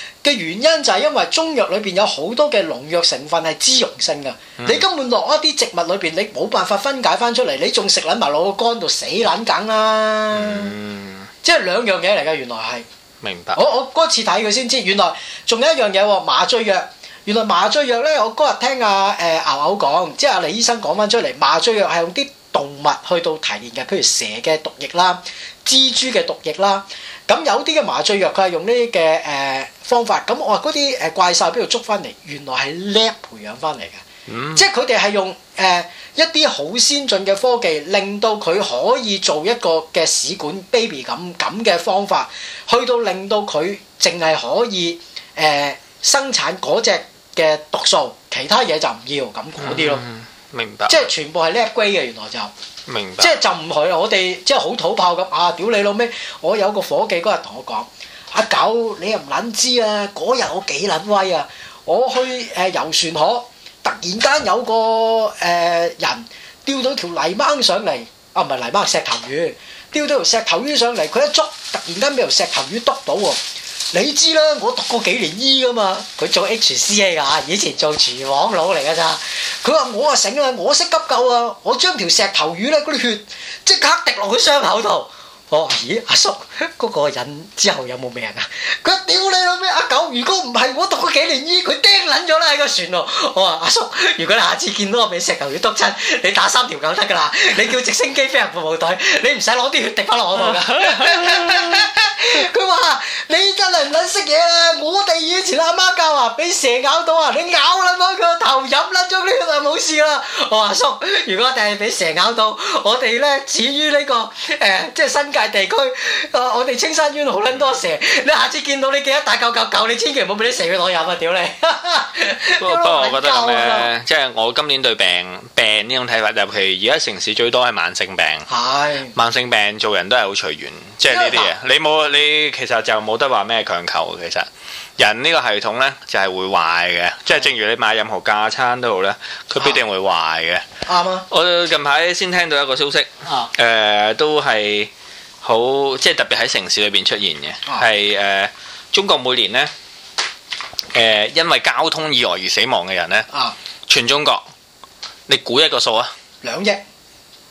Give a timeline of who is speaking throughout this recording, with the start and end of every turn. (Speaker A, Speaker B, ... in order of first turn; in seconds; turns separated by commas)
Speaker A: 0.2-10.7, Speaker B: 4.6-4.8, Speaker B: 10.3-11.3, Speaker A: 11.4-12.8, Speaker B: 13.2-13.6, Speaker A: 13.6-34.0, Speaker B: 34.3-34.7, Speaker A: 34.5-50.0, Speaker B: 49.6-51.1, Speaker A: 50.9-52.5, Speaker B: 52.9-53.3, Speaker A: 53.2-73.4, Speaker A: 73.9-123.9, Speaker B: 100.4-101.8, Speaker B: 122.6-128.4, Speaker A: 128.5-129.2, Speaker B: 129.1-134.5, Speaker A: 131.1-131.5, Speaker B: 135.0-140.7, Speaker A: 140.9-141.3, Speaker B: 141.3-144.9, Speaker B: 145.4-149.7, Speaker B: 150.9-153.3, Speaker A: 153.3-153.6, Speaker B: 153.9-154.4, Speaker B: 155.3-156.1, Speaker A: 156.4-156.8